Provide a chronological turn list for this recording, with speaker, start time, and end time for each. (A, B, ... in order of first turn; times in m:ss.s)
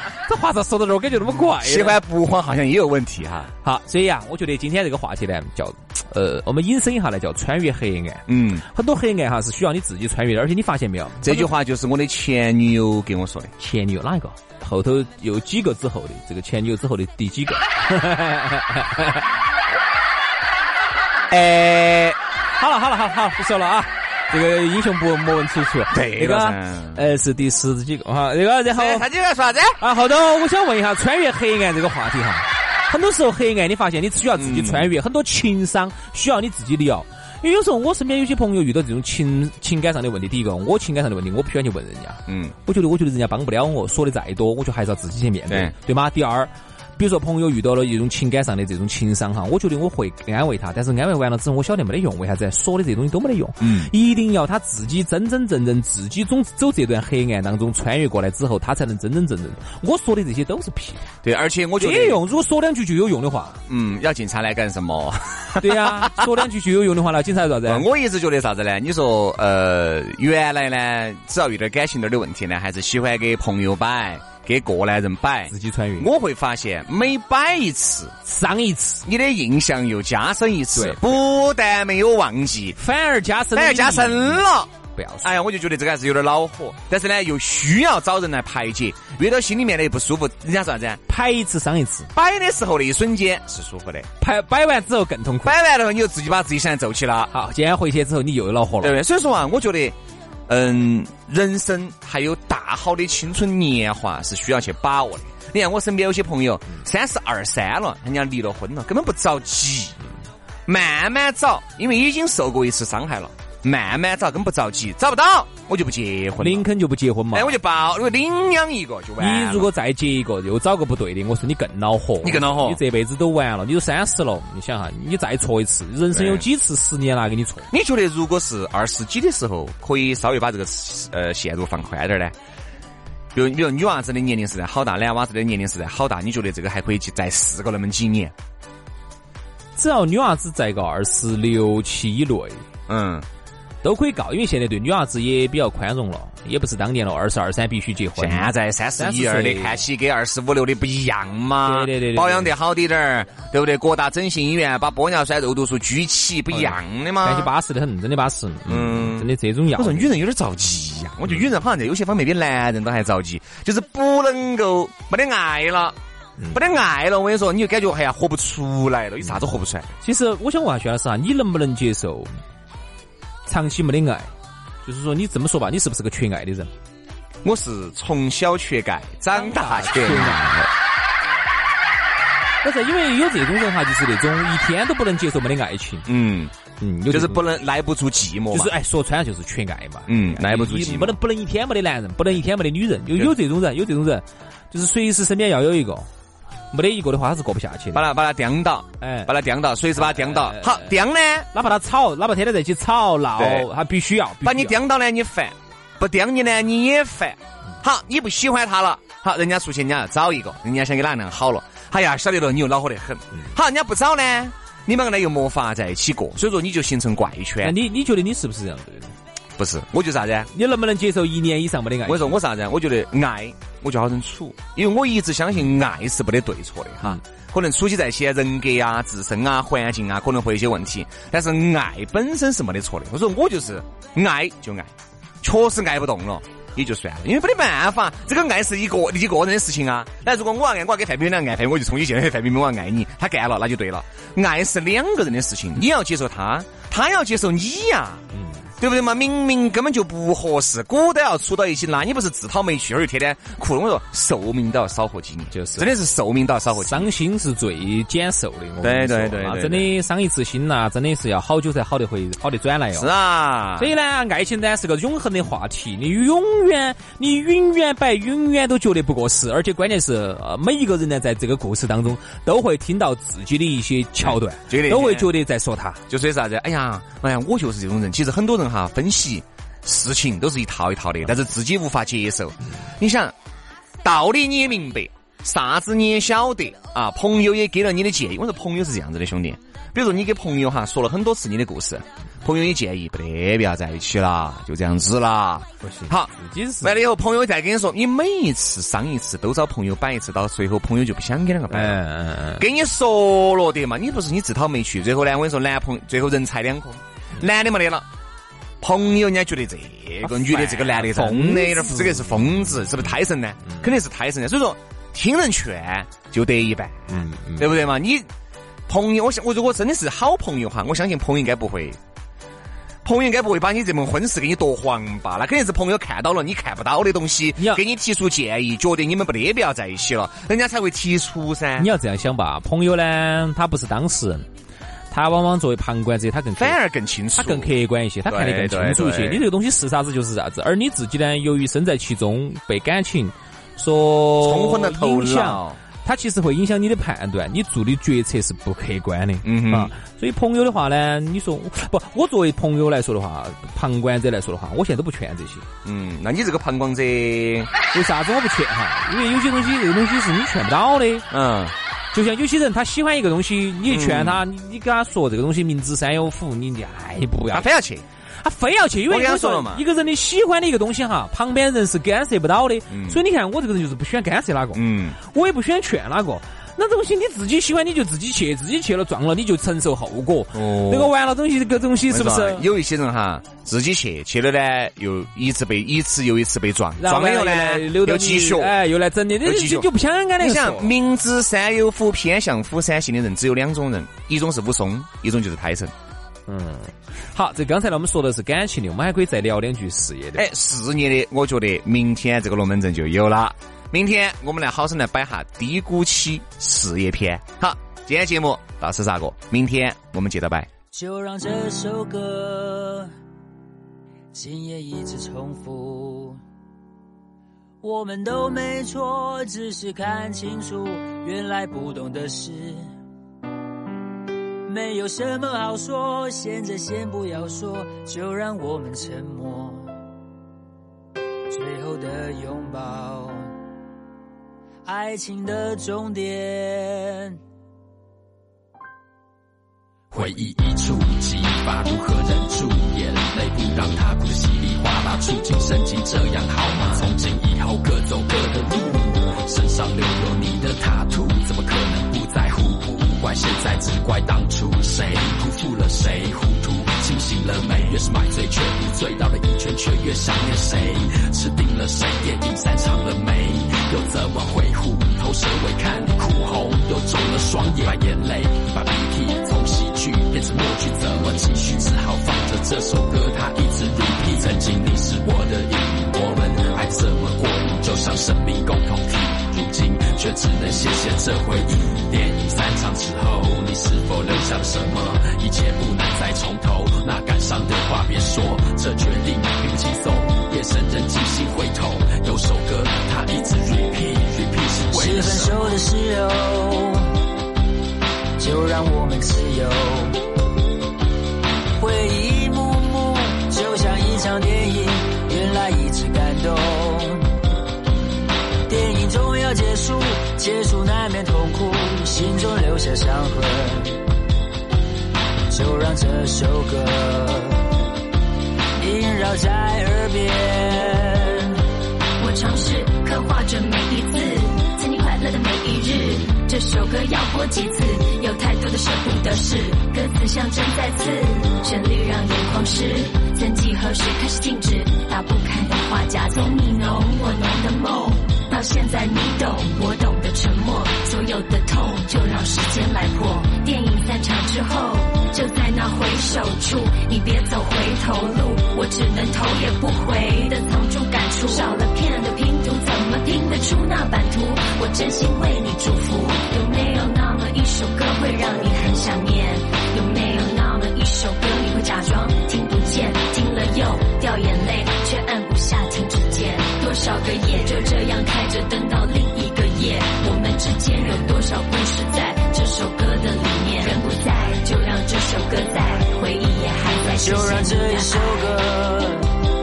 0:00.3-0:02.0 A
0:01.6-0:03.5 B
0:03.6-0:11.5 A
0:08.3-0:08.6 B
0:11.2-0:13.5 B
0:13.6-0:19.2 A
0:21.3-0:22.2 B
0:22.6-0:29.1 A
0:25.9-0:27.0 B
0:28.7-0:29.8 B
0:29.8-1:01.1 A
0:34.4-0:34.9 B
0:42.3-0:42.5 B
0:45.5-0:45.7 B
0:53.6-0:53.9 B
1:01.2-1:02.2 B
1:01.8-1:03.6 A
1:03.7-1:06.4 B
1:05.6-1:07.8 A
1:07.6-1:18.2 B
1:15.5-1:16.1 A
1:18.2-1:19.0 A
1:19.0-1:22.8 B
1:20.7-1:21.2 A
1:22.8-1:25.3 A
1:23.5-1:24.7 B
1:25.2-1:31.0 B
1:31.1-1:32.1 A
1:32.1-1:34.1 B
1:34.2-1:35.5 A
1:35.4-1:37.3 B
1:37.3-1:39.0 A
1:38.8-1:40.0 B
1:40.5-1:50.0 B
1:50.6-1:56.7 B
1:56.4-1:57.6 A
1:57.3-1:59.7 B
1:59.2-2:07.7 A
2:02.2-2:02.8 B
2:06.1-2:06.4 B
2:07.7-2:12.3 B
2:13.3-2:18.3 B
2:19.8-2:22.6 A
2:22.9-2:23.2 B
2:23.8-2:29.8 A
2:28.2-2:37.5 B
2:31.6-2:32.5 A
2:36.5-2:40.1 A
2:38.7-2:46.0 B
2:46.5-2:49.9 B
2:50.0-2:52.3 A
2:53.4-2:54.3 A
2:54.8-2:56.7 A
2:57.4-3:00.6 B
2:59.3-3:00.7 A
3:02.6-3:06.1 A
3:06.0-3:06.5 B
3:06.8-3:07.5 A
3:07.1-3:08.7 B
3:08.5-3:16.1 A
3:10.1-3:11.2 B
3:16.7-3:18.0 A
3:17.9-3:21.5 B
3:19.0-3:19.3 A
3:20.0-3:20.9 A
3:21.5-3:24.8 A
3:23.4-3:23.7 B
3:24.4-3:37.8 B
3:37.6-3:39.1 A
3:39.6-3:40.5 B
3:40.5-3:42.4 A
3:42.0-4:08.2 B
4:08.3-4:08.6 A
4:08.8-4:17.1 B
4:15.5-4:15.9 A
4:16.7-4:23.1 A
4:18.8-4:19.9 B
4:22.9-4:23.9 B
4:23.8-4:36.0 A
4:34.2-4:35.3 B
4:36.1-4:43.3 B
4:44.0-5:02.0 B
4:55.8-4:57.0 A
5:01.7-5:02.6 A
5:02.6-5:08.1 B
5:08.8-5:18.3 B
5:10.2-5:12.5 A
5:17.1-5:17.8 A
5:18.9-5:22.0 B
5:23.0-5:31.9 B
5:31.8-5:34.5 A
5:35.1-5:36.8 A
5:36.5-5:39.4 B
5:37.4-5:55.7 A
5:44.4-5:45.8 B
5:49.4-5:49.9 B
5:55.8-5:57.7 B
5:57.9-6:01.2 A
6:01.3-6:01.7 B
6:02.1-6:07.7 A
6:03.9-6:04.4 B
6:07.5-6:08.0 B
6:08.4-6:22.6 A
6:09.1-6:09.8 B
6:12.9-6:13.2 B
6:14.7-6:15.2 B
6:20.5-6:21.1 B
6:22.1-6:28.8 B
6:27.0-6:30.9 A
6:29.4-6:35.9 B
6:36.5-6:40.5 A
6:40.4-6:50.7 B
6:50.9-6:53.1 C
6:54.3-6:56.4 C
6:57.8-7:02.9 C
7:04.6-7:09.9 C
7:11.5-7:13.5 C
7:14.8-7:17.4 C
7:20.1-8:15.7 D
8:14.9-8:17.0 C
8:18.4-8:20.2 C
8:21.8-8:27.3 C
8:28.7-8:34.0 C
8:35.5-8:37.7 C
8:38.8-8:41.6 C
8:42.2-9:38.4 E
9:37.1-9:39.3 C